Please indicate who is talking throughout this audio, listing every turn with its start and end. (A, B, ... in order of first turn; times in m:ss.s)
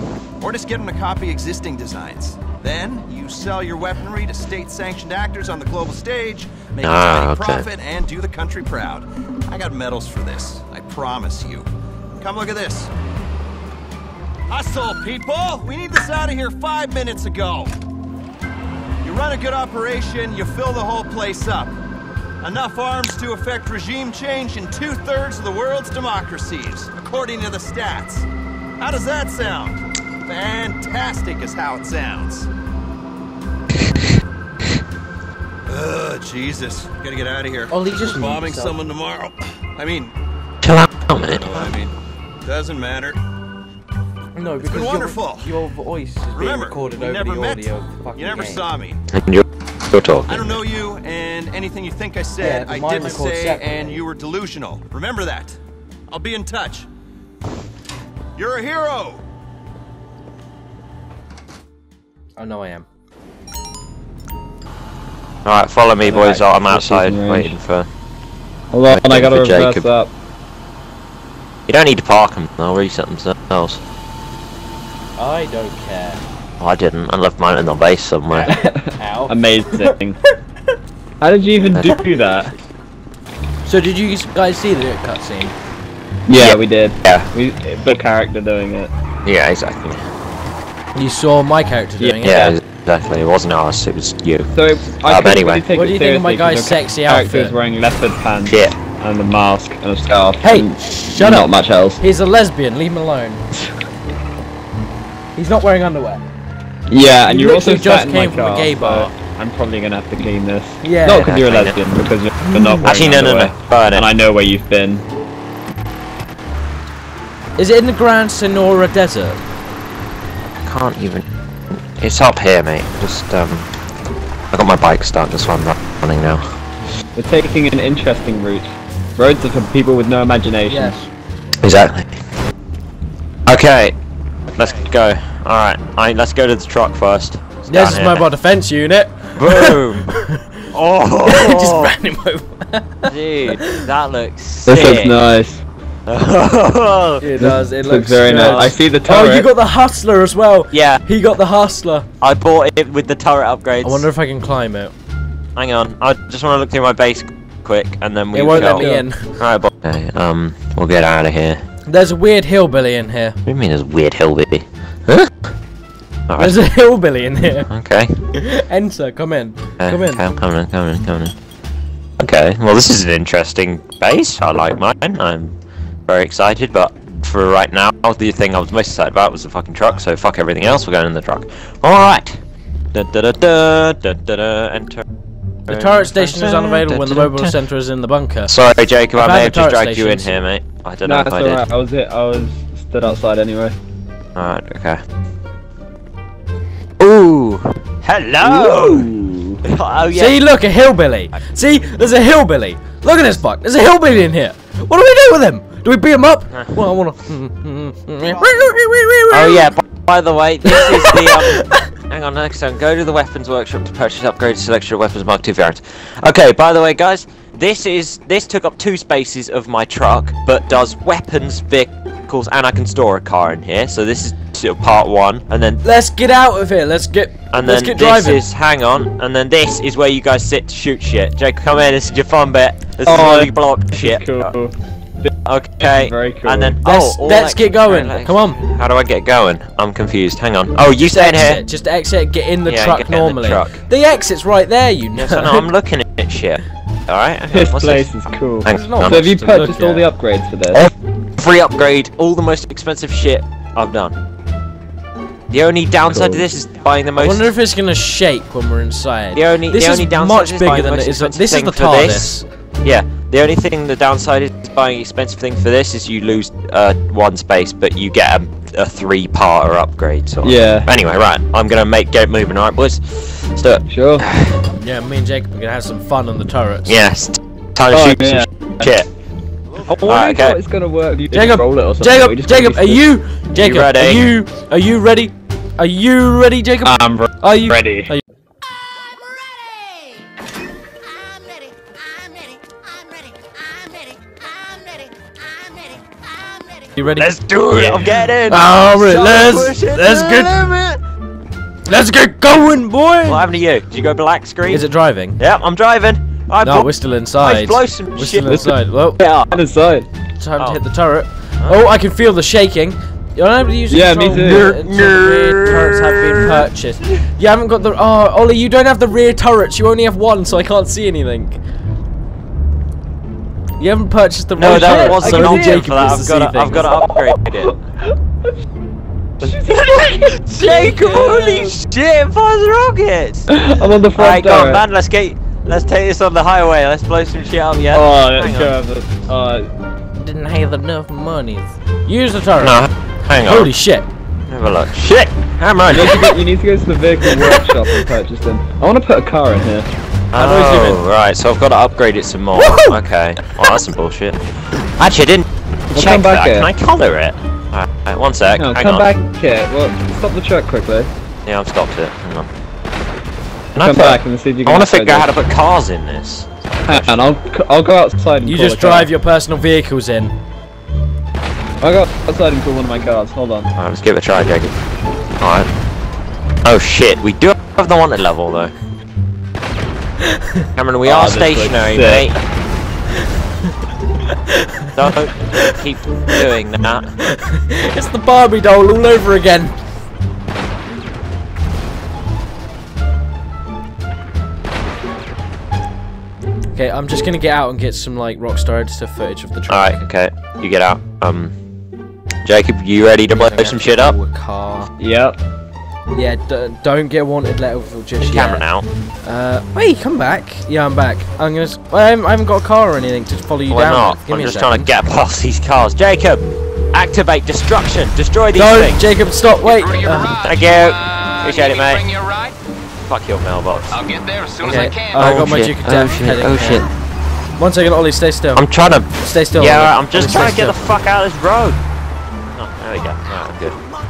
0:00.4-0:11.7 A
0:06.8-0:07.6 B
0:12.2-0:12.9 A
0:14.5-0:17.7 A
0:19.0-0:21.7 A
0:22.4-0:28.3 A
0:28.8-0:32.5 A
0:35.7-0:40.1 A
0:37.7-0:38.8 C
0:40.6-0:41.7 B
0:41.2-0:43.2 A
0:44.3-0:48.7 C
0:44.6-0:45.6 A
0:46.3-0:49.0 A
0:49.1-0:50.6 B
0:50.3-0:55.6 A
0:52.4-0:54.0 C
0:56.1-0:56.9 A
0:58.4-0:59.2 A
1:02.4-1:02.8 C
1:05.4-1:07.9 B
1:06.0-1:06.4 C
1:06.1-1:07.5 D
1:08.7-1:10.1 D
1:08.8-1:09.9 B
1:11.7-1:13.8 B
1:15.2-1:16.2 C
1:16.6-1:18.6 B
1:18.3-1:19.9 C
1:18.4-1:20.2 D
1:21.2-1:22.5 D
1:21.7-1:22.0 B
1:23.6-1:25.5 C
1:26.3-1:28.9 D
1:26.3-1:27.3 B
1:29.2-1:30.0 B
1:30.9-1:32.5 C
1:32.0-1:32.6 D
1:32.2-1:34.5 B
1:34.5-1:42.0 D
1:35.0-1:35.6 B
1:35.7-1:37.5 C
1:38.5-1:38.8 B
1:40.4-1:43.4 C
1:45.3-1:46.2 C
1:46.9-1:55.0 D
1:47.2-1:49.1 C
1:50.8-1:51.3 C
1:51.2-1:51.8 B
1:52.5-1:52.9 C
1:52.8-1:54.1 B
1:57.6-1:59.4 C
2:00.6-2:01.2 B
2:02.0-2:03.7 B
2:04.5-2:06.4 B
2:07.1-2:10.9 D
2:10.7-2:11.1 C
2:11.6-2:12.2 B
2:13.5-2:14.0 B
2:14.5-2:18.2 B
2:17.7-2:20.6 C
2:19.4-2:20.1 B
2:20.7-2:21.9 B
2:21.2-2:23.9 C
2:23.1-2:25.2 B
2:24.7-2:25.6 D
2:26.1-2:27.3 B
2:27.2-2:32.1 C
2:27.4-2:29.5 D
2:28.3-2:28.7 B
2:30.7-2:31.0 B
2:32.2-2:34.1 B
2:33.8-2:34.9 C
2:35.6-2:41.6 B
2:38.3-2:39.4 C
2:38.6-2:39.0 D
2:41.9-2:43.4 C
2:43.4-2:45.3 B
2:46.3-2:46.6 B
2:46.4-2:47.7 C
2:47.7-2:48.1 B
2:48.3-2:50.2 C
2:49.8-2:51.3 B
2:52.2-3:02.4 B
3:02.9-3:05.0 B
3:05.7-3:07.5 B
3:05.7-3:08.6 C
3:08.5-3:11.6 B
3:09.1-3:10.4 C
3:11.0-3:13.8 D
3:14.3-3:15.0 B
3:17.0-3:19.1 B
3:18.4-3:19.6 D
3:19.6-3:20.4 B
3:20.1-3:29.7 C
3:29.3-3:45.8 B
3:30.6-3:31.9 C
3:45.8-3:48.4 C
3:47.5-3:54.5 B
3:53.0-3:56.8 D
3:55.4-4:01.6 B
3:56.8-3:58.6 C
4:01.0-4:05.7 C
4:02.6-4:03.8 B
4:05.1-4:08.1 B
4:07.5-4:10.9 D
4:08.6-4:09.7 B
4:08.6-4:10.1 C
4:10.7-4:14.2 B
4:15.5-4:17.5 B
4:16.1-4:16.5 D
4:17.2-4:22.4 C
4:19.3-4:22.3 B
4:22.8-4:34.7 B
4:30.4-4:30.9 D
4:33.9-4:34.2 D
4:34.8-4:37.0 C
4:36.9-4:39.1 B
4:37.9-4:38.9 D
4:39.8-4:43.1 D
4:40.0-4:40.6 B
4:41.3-4:48.2 C
4:43.6-4:44.3 B
4:46.8-4:48.1 D
4:57.0-5:00.9 C
4:57.0-5:01.0 B
5:01.9-5:03.5 C
5:03.2-5:04.8 B
5:04.7-5:05.4 C
5:05.4-5:06.9 B
5:06.6-5:09.2 C
5:07.4-5:09.5 B
5:09.5-5:10.1 D
5:10.4-5:21.6 C
5:13.9-5:14.8 D
5:14.3-5:16.6 B
5:23.8-5:27.0 C
5:24.5-5:27.7 B
5:24.6-5:26.0 D
5:26.9-5:28.5 D
5:29.4-5:31.0 D
5:29.4-5:38.7 B
5:30.6-5:31.7 C
5:33.5-5:34.8 D
5:37.9-5:39.7 D
5:40.1-5:42.8 C
5:42.6-5:43.7 B
5:43.4-5:44.1 C
5:44.5-5:46.3 B
5:45.9-5:49.9 D
5:50.3-5:59.1 B
5:50.4-5:51.0 C
5:52.6-5:53.0 C
5:55.9-5:56.7 D
5:58.6-6:01.1 D
6:01.4-6:02.5 B
6:03.7-6:07.2 B
6:03.8-6:05.3 D
6:06.9-6:09.1 D
6:08.4-6:10.4 C
6:11.8-6:13.7 D
6:13.8-6:14.8 B
6:15.4-6:15.7 B
6:16.6-6:18.7 B
6:20.8-6:22.4 B
6:21.0-6:22.3 D
6:24.2-6:24.9 C
6:24.9-6:27.1 B
6:27.2-6:29.7 C
6:36.7-6:40.0 C
6:39.7-6:41.5 B
6:42.4-6:44.2 B
6:43.3-6:44.9 C
6:45.0-6:45.4 D
6:46.1-6:48.7 C
6:48.2-6:48.9 B
6:49.2-6:54.9 C
6:53.7-6:59.0 B
6:58.5-7:00.4 C
7:00.3-7:02.2 B
7:01.6-7:02.5 E
7:03.1-7:04.0 B
7:04.1-7:05.2 E
7:04.6-7:06.9 C
7:04.7-7:06.9 B
7:07.6-7:10.8 C
7:08.5-7:11.8 B
7:12.5-7:13.8 B